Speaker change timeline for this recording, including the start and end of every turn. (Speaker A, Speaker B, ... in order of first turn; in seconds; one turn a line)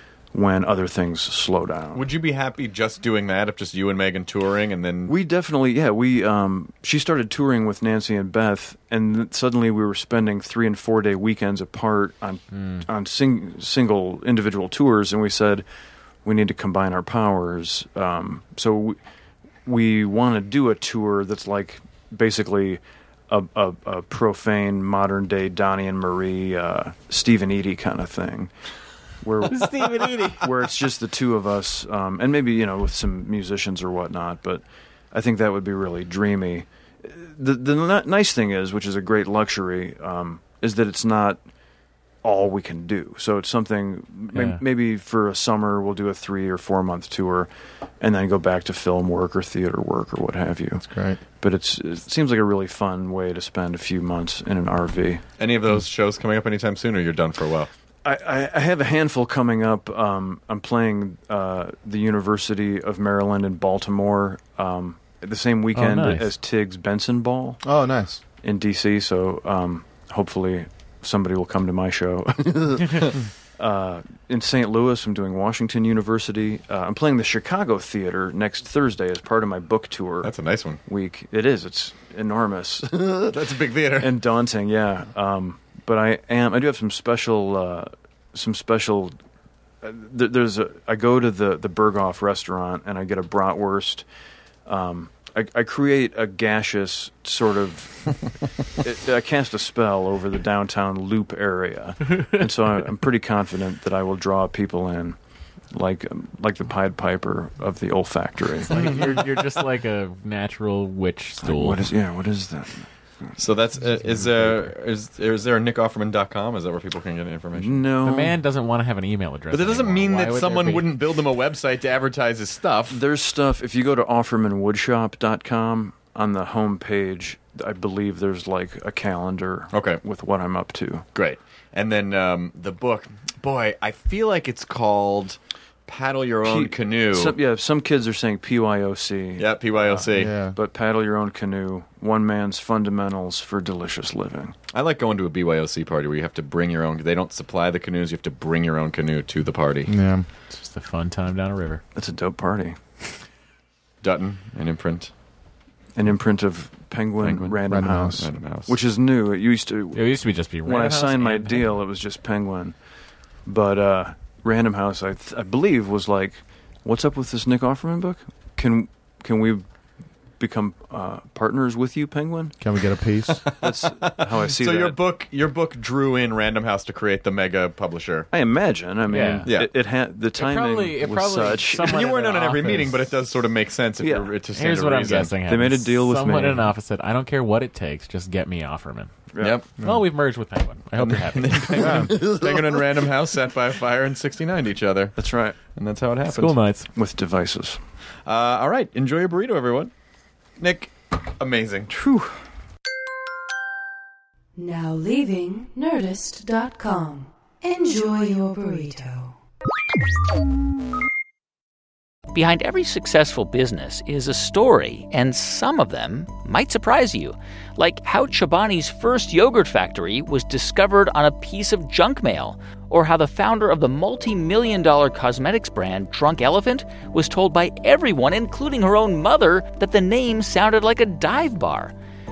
Speaker A: 0.3-2.0
Speaker B: 1.9-5.1
Speaker A: 5.1-15.6
Speaker A: 16.2-19.0
Speaker A: 19.6-28.5
Speaker A: 29.2-41.4
Speaker C: 29.5-30.5
Speaker A: 42.2-47.5
Speaker C: 44.3-44.6
Speaker A: 48.0-55.2
Speaker D: 50.8-51.2
Speaker B: 55.4-57.7
Speaker A: 58.0-67.6
Speaker C: 65.7-66.3
Speaker D: 67.6-68.2
Speaker A: 68.4-80.3
Speaker B: 80.2-80.8
Speaker A: 80.8-83.4
Speaker B: 83.2-84.2
Speaker A: 83.9-89.1
Speaker A: 89.8-94.1
Speaker A: 94.7-98.2
Speaker A: 98.8-105.2
Speaker A: 105.7-109.2
Speaker C: 108.6-111.8
Speaker A: 111.4-112.9
Speaker B: 113.4-117.8
Speaker A: 117.5-118.4
Speaker C: 118.0-120.9
Speaker B: 119.5-123.0
Speaker A: 122.9-131.1
Speaker B: 129.7-130.0
Speaker B: 131.1-137.3
Speaker A: 136.4-144.6
Speaker B: 139.4-140.3
Speaker D: 140.1-140.5
Speaker B: 144.7-149.9
Speaker D: 149.9-150.2
Speaker C: 150.5-151.8
Speaker A: 151.9-152.8
Speaker B: 154.0-155.1
Speaker A: 155.9-160.1
Speaker B: 157.2-157.6
Speaker D: 157.7-158.2
Speaker B: 158.1-158.8
Speaker C: 159.9-161.7
Speaker A: 160.6-162.7
Speaker A: 163.4-169.6
Speaker A: 170.4-172.6
Speaker D: 172.6-173.5
Speaker B: 173.5-178.3
Speaker A: 173.6-175.0
Speaker A: 178.3-182.0
Speaker C: 179.1-179.5
Speaker C: 180.4-182.9
Speaker B: 181.8-185.3
Speaker A: 184.0-184.3
Speaker C: 184.5-189.1
Speaker A: 185.4-186.7
Speaker A: 189.3-189.6
Speaker B: 189.4-189.7
Speaker C: 189.8-192.1
Speaker B: 191.0-195.2
Speaker D: 191.8-192.1
Speaker A: 195.2-195.6
Speaker B: 195.7-196.5
Speaker C: 196.3-196.9
Speaker A: 196.9-197.8
Speaker B: 198.2-199.9
Speaker B: 200.6-201.9
Speaker D: 201.9-202.3
Speaker E: 204.6-209.3
Speaker F: 212.3-231.9